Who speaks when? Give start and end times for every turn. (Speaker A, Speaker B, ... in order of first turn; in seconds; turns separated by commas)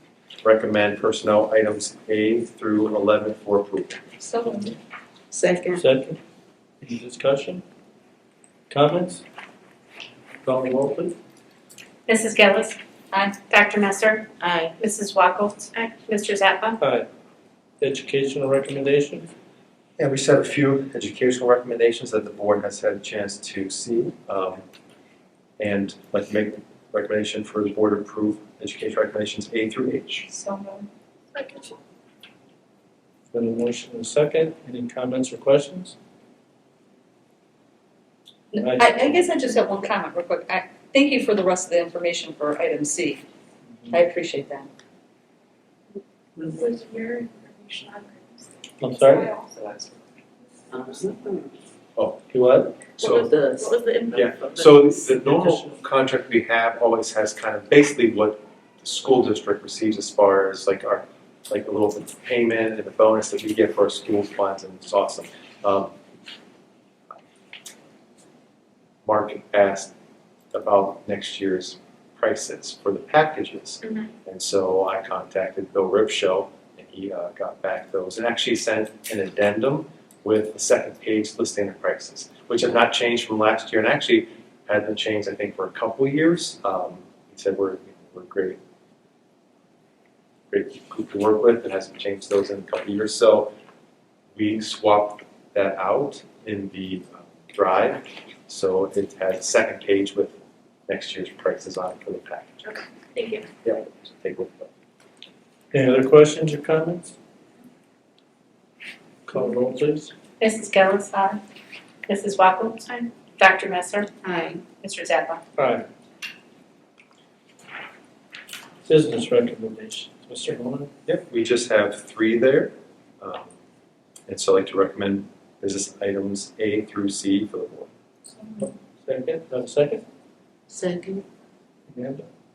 Speaker A: 0.4-4.1, Speaker B: 4.2-4.8, Speaker C: 5.3-5.8, Speaker D: 5.8-6.2, Speaker D: 6.8-7.6, Speaker D: 8.7-9.2, Speaker D: 10.4-11.1, Speaker E: 12.1-12.8, Speaker B: 13.1-13.4, Speaker E: 13.5-16.8, Speaker C: 14.4-14.7, Speaker D: 16.8-17.1, Speaker D: 17.8-19.3, Speaker A: 20.0-24.6, Speaker A: 25.6-30.3, Speaker B: 30.3-31.6, Speaker D: 33.3-36.0, Speaker B: 38.5-43.2, Speaker D: 38.5-39.0, Speaker B: 43.9-44.7, Speaker B: 46.6-47.7, Speaker D: 48.8-49.3, Speaker B: 49.1-49.8, Speaker C: 50.7-51.5, Speaker A: 52.0-52.2, Speaker D: 52.3-52.7, Speaker A: 53.0-53.2, Speaker C: 53.0-55.0, Speaker B: 53.0-54.3, Speaker A: 54.1-65.9, Speaker D: 55.1-55.8, Speaker A: 69.0-69.9, Speaker A: 70.5-88.6, Speaker A: 90.5-93.5, Speaker A: 94.3-102.7, Speaker E: 103.2-103.4, Speaker A: 103.6-104.7, Speaker D: 105.7-107.1, Speaker D: 109.2-110.1, Speaker E: 110.4-111.4, Speaker E: 112.1-115.4, Speaker C: 114.2-114.6, Speaker D: 115.6-115.8, Speaker D: 118.8-120.9, Speaker A: 121.0-123.5, Speaker A: 124.3-127.9, Speaker B: 128.4-128.7, Speaker D: 128.6-130.0, Speaker C: 130.7-131.2, Speaker D: 131.9-132.2